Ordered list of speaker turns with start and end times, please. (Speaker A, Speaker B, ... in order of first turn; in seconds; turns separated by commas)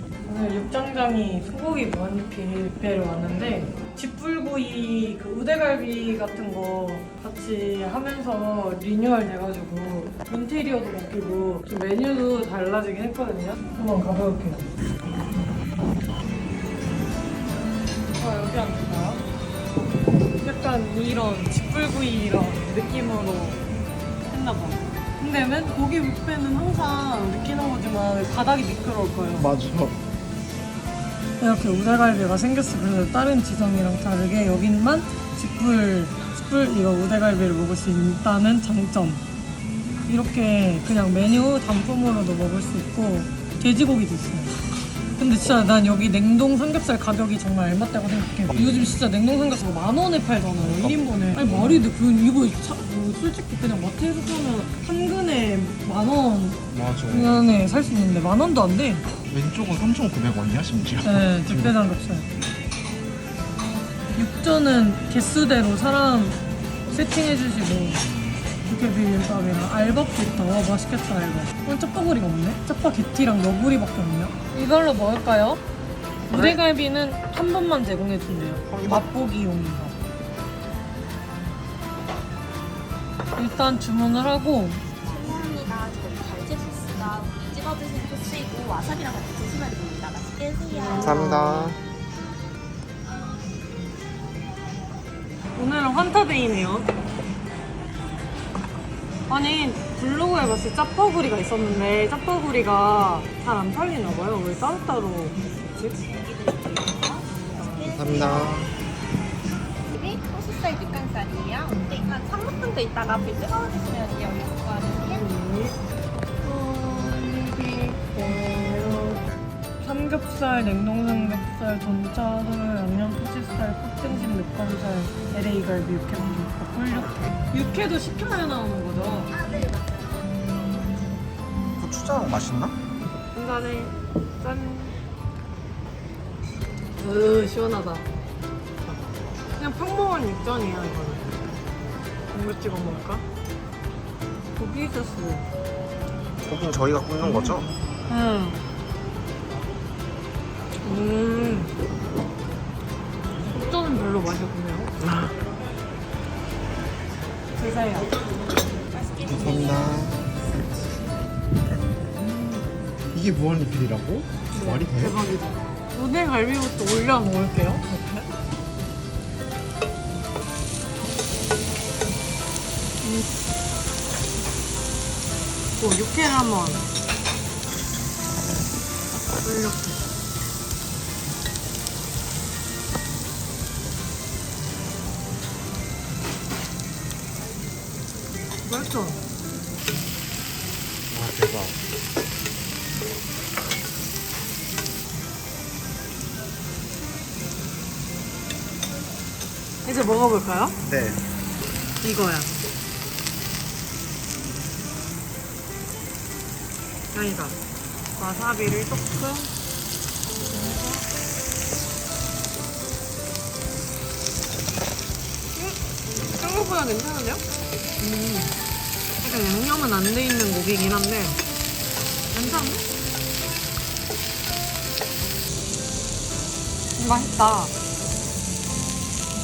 Speaker A: 0.2-14.7, Speaker A: 18.1-19.2, Speaker A: 20.3-23.6, Speaker A: 24.3-29.5, Speaker B: 29.4-30.0, Speaker A: 31.4-39.2, Speaker A: 40.1-44.5, Speaker A: 45.2-59.0, Speaker B: 48.5-48.9, Speaker B: 50.6-51.9, Speaker B: 56.7-57.5, Speaker B: 59.3-61.8, Speaker A: 61.0-62.3, Speaker A: 64.1-68.0, Speaker B: 68.0-68.4, Speaker A: 68.6-75.6, Speaker A: 76.3-79.9, Speaker B: 76.3-76.6, Speaker B: 78.7-79.0, Speaker A: 83.4-84.8, Speaker C: 85.0-91.3, Speaker A: 90.7-91.8, Speaker B: 91.0-91.8, Speaker A: 95.5-96.9, Speaker A: 99.3-105.9, Speaker C: 105.9-108.7, Speaker B: 107.9-108.7, Speaker C: 109.9-115.2, Speaker A: 115.0-115.8, Speaker A: 116.4-119.2, Speaker A: 119.8-129.4, Speaker C: 129.3-130.2, Speaker B: 131.8-132.8, Speaker A: 133.3-135.0, Speaker A: 137.0-138.1, Speaker A: 139.6-141.4, Speaker A: 142.3-143.2, Speaker A: 144.6-145.4, Speaker B: 146.4-147.7, Speaker A: 147.2-148.6, Speaker A: 150.8-151.8, Speaker A: 153.4-154.9, Speaker A: 157.6-158.1, Speaker B: 159.2-160.2, Speaker B: 162.2-165.2, Speaker A: 164.5-168.3, Speaker A: 173.0-173.3, Speaker A: 175.8-176.8, Speaker A: 179.4-180.0, Speaker A: 188.7-189.2, Speaker B: 191.1-191.8, Speaker A: 199.8-200.8, Speaker B: 200.8-201.2, Speaker A: 202.0-202.5, Speaker A: 207.1-207.6, Speaker A: 208.2-209.5, Speaker A: 210.5-211.1, Speaker A: 215.5-217.4, Speaker A: 218.0-218.5, Speaker A: 219.2-221.4, Speaker A: 222.3-222.8, Speaker A: 227.0-227.7